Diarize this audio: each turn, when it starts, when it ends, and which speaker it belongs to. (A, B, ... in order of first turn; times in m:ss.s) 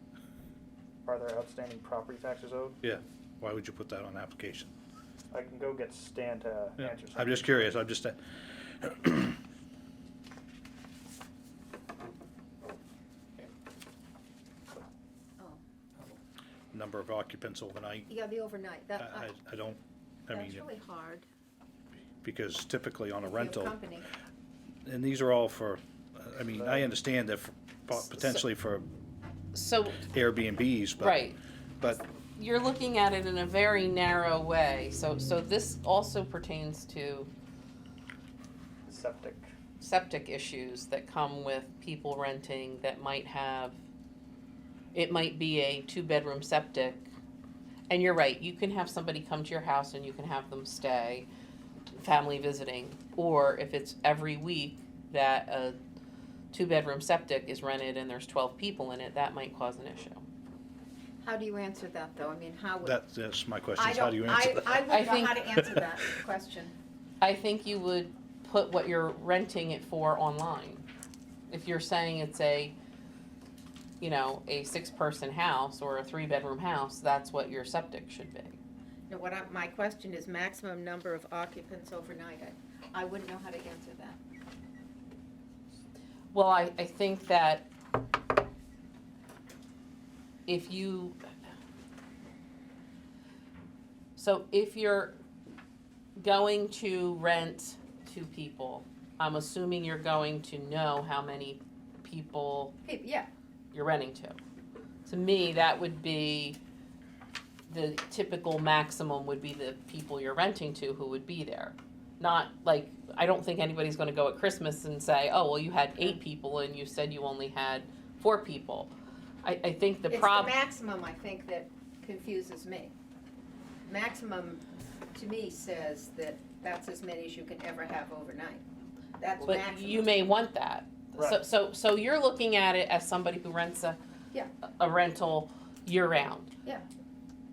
0:01.0-0:02.8 A
0:02.8-0:04.7 B
0:05.3-0:07.7 A
0:06.8-0:08.2 B
0:08.8-0:09.4 B
0:16.7-0:18.1 B
0:18.1-0:19.3 C
0:19.0-0:20.6 B
0:20.3-0:21.3 C
0:22.2-0:23.8 B
0:23.2-0:24.1 C
0:24.9-0:28.9 B
0:26.5-0:26.9 A
0:28.0-0:28.4 D
0:29.5-0:30.1 D
0:30.0-0:31.2 B
0:31.0-0:31.4 D
0:32.4-0:37.3 D
0:38.9-0:39.5 A
0:39.8-0:43.8 D
0:44.9-0:47.1 D
0:47.9-0:51.3 D
0:52.0-0:55.8 D
0:56.5-1:00.2 D
1:01.2-1:03.0 C
1:02.8-1:05.0 B
1:03.8-1:06.7 C
1:04.9-1:05.5 D
1:07.2-1:10.8 D
1:11.5-1:12.8 D
1:14.0-1:18.6 D
1:19.1-1:24.2 C
1:26.3-1:27.7 D
1:30.5-1:31.2 D
1:34.2-1:35.2 D
1:36.2-1:42.8 D
1:42.8-1:43.3 C
1:43.7-1:44.4 D
1:45.1-1:46.6 D
1:47.7-1:58.9 D
1:59.4-2:00.6 D
2:00.1-2:02.9 C
2:03.9-2:04.6 C
2:05.1-2:08.6 C
2:09.2-2:10.1 C
2:09.4-2:14.0 D
2:11.2-2:11.4 A
2:14.8-2:16.5 D